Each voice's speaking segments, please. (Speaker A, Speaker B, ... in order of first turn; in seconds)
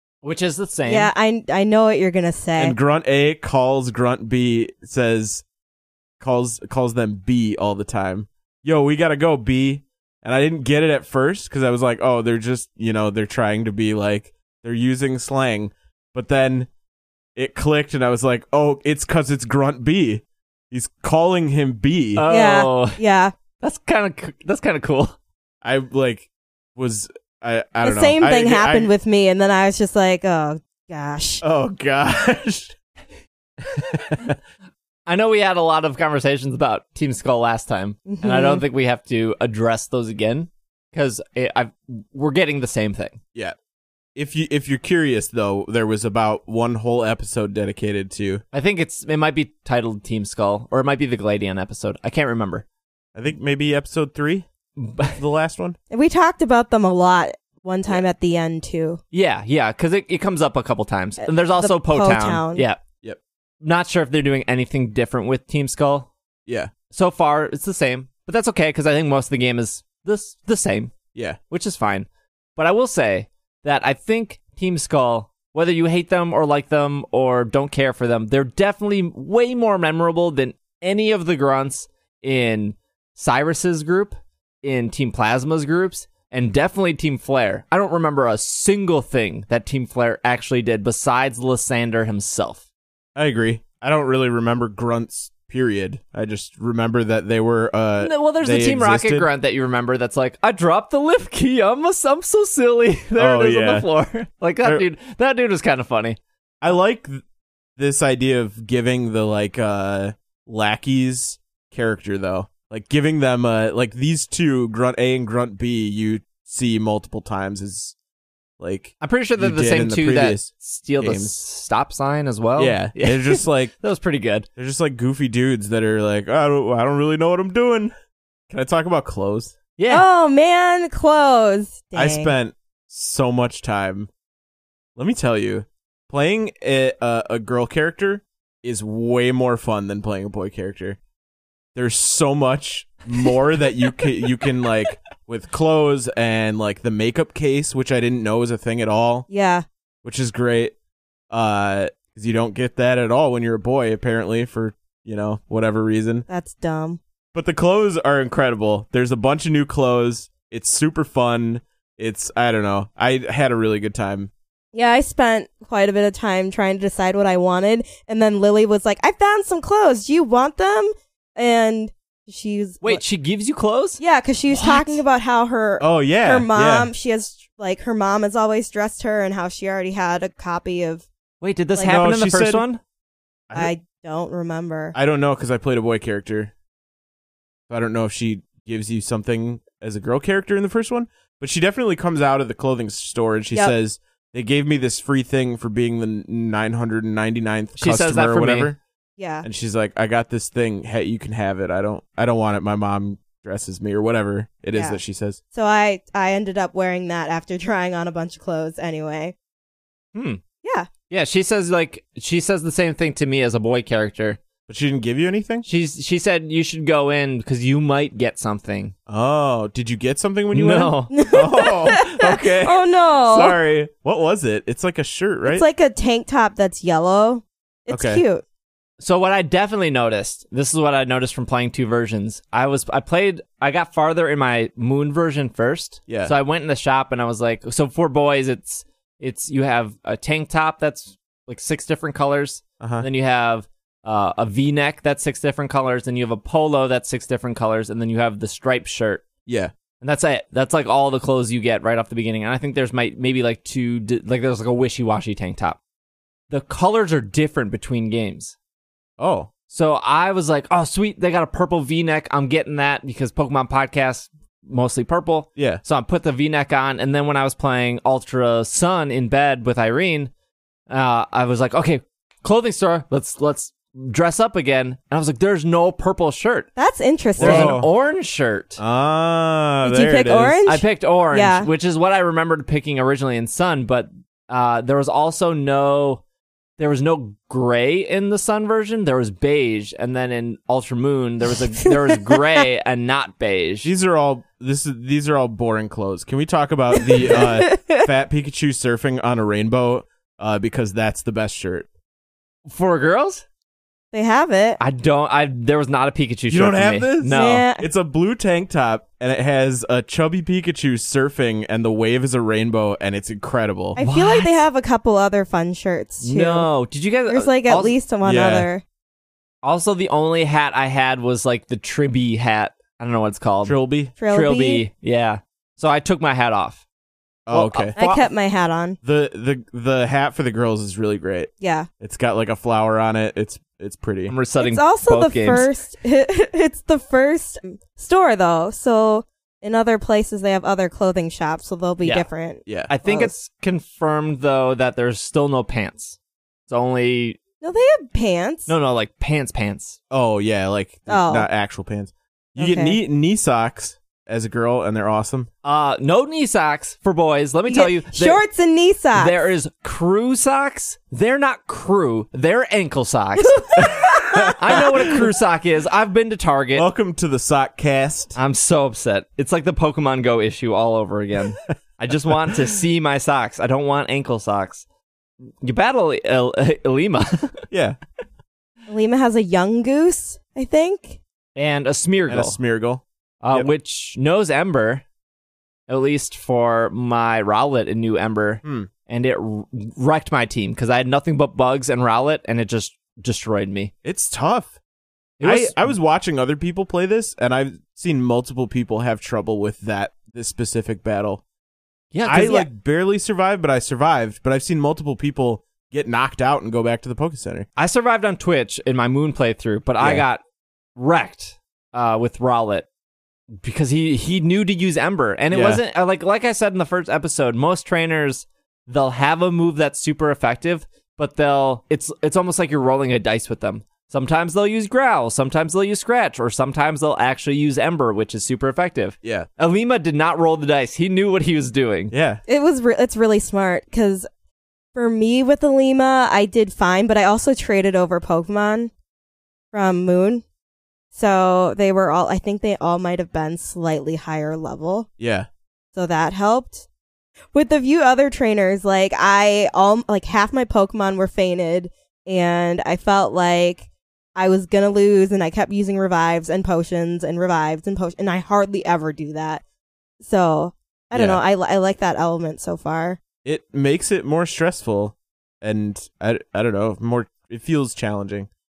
Speaker A: 0.2-1.1, 22.2-23.0, 23.6-25.2, 35.1-43.2, 48.5-52.6, 54.8-55.2, 59.1-62.8, 63.6-66.1, 66.9-71.0, 71.5-92.6, 98.0-106.2, 119.0-124.5, 129.8-130.1, 172.8-175.0, 181.4-182.8, 197.8-198.7, 210.1-210.4, 211.1-214.4, 215.6-218.9, 220.5-221.1, 229.0-249.3, 250.0-255.8, 256.5-258.6, 259.7-270.3, 270.9-276.7, 277.4-278.8, 280.7-286.2, 286.8-293.9, 302.7-303.4, 304.8-307.6, 314.0-314.6, 316.2-317.9, 319.6-323.8, 324.3-326.8, 327.5-328.3, 334.3-335.7, 342.9-347.4, 348.7-350.0, 355.6-358.4, 359.1-366.9, 368.4-374.9, 375.6-377.7, 381.6-382.6, 383.4-385.0, 385.9-393.9, 395.4-395.9, 402.1-402.7, 407.8-410.4, 411.0-412.9, 413.6-432.1
Speaker B: 0.9-2.8, 22.3-23.3, 27.8-31.4, 38.1-38.6, 55.9-59.0, 61.2-62.6, 129.9-132.3, 149.3-149.7, 156.3-157.0, 164.7-173.0, 174.0-181.1, 183.5-185.0, 199.2-199.5, 204.7-205.0, 205.5-209.3, 210.6-210.9, 221.1-223.6, 225.5-228.4, 276.8-277.8, 279.8-281.7, 297.0-298.1, 304.1-304.8, 307.3-307.9, 313.9-316.7, 317.3-318.8, 324.2-324.9, 328.0-329.0, 331.6-331.9, 334.6-343.3, 347.6-348.7, 351.1-351.5, 352.6-353.0, 357.7-359.5, 363.4-364.8, 378.9-381.2, 432.5-434.3, 434.9-438.9, 439.7-440.4, 441.1-445.1, 445.9-446.9, 447.5-459.6, 460.2-463.2
Speaker C: 2.6-5.5, 6.2-16.7, 17.4-22.2, 25.6-28.9, 31.4-32.8, 33.6-34.4, 44.1-48.4, 53.1-54.5, 55.1-55.8, 93.2-99.3, 103.2-103.9, 106.6-107.2, 107.8-118.0, 118.6-121.3, 122.6-123.7, 124.6-127.9, 128.5-129.6, 131.9-134.1, 135.0-141.0, 141.8-149.3, 150.0-150.8, 151.3-156.3, 157.3-164.3, 175.8-176.9, 181.9-182.7, 184.9-186.5, 187.7-198.8, 199.4-205.4, 214.7-215.7, 219.1-225.7, 227.9-228.2, 236.1-236.3, 242.8-243.1, 249.5-249.7, 259.2-259.5, 265.6-265.8, 277.4-277.9, 278.8-280.6, 293.8-301.9, 306.5-314.0, 318.2-318.7, 323.6-324.1, 327.5-328.0, 329.0-334.3, 342.7-342.9, 350.1-355.5, 363.9-365.2, 366.7-368.4, 377.7-378.0, 382.3-383.7, 388.6-388.9, 394.0-394.8, 395.4-401.4, 402.2-407.7, 410.0-410.2, 415.5-415.8, 429.2-429.5, 432.1-432.4, 445.2-445.5, 461.1-461.4, 463.4-468.5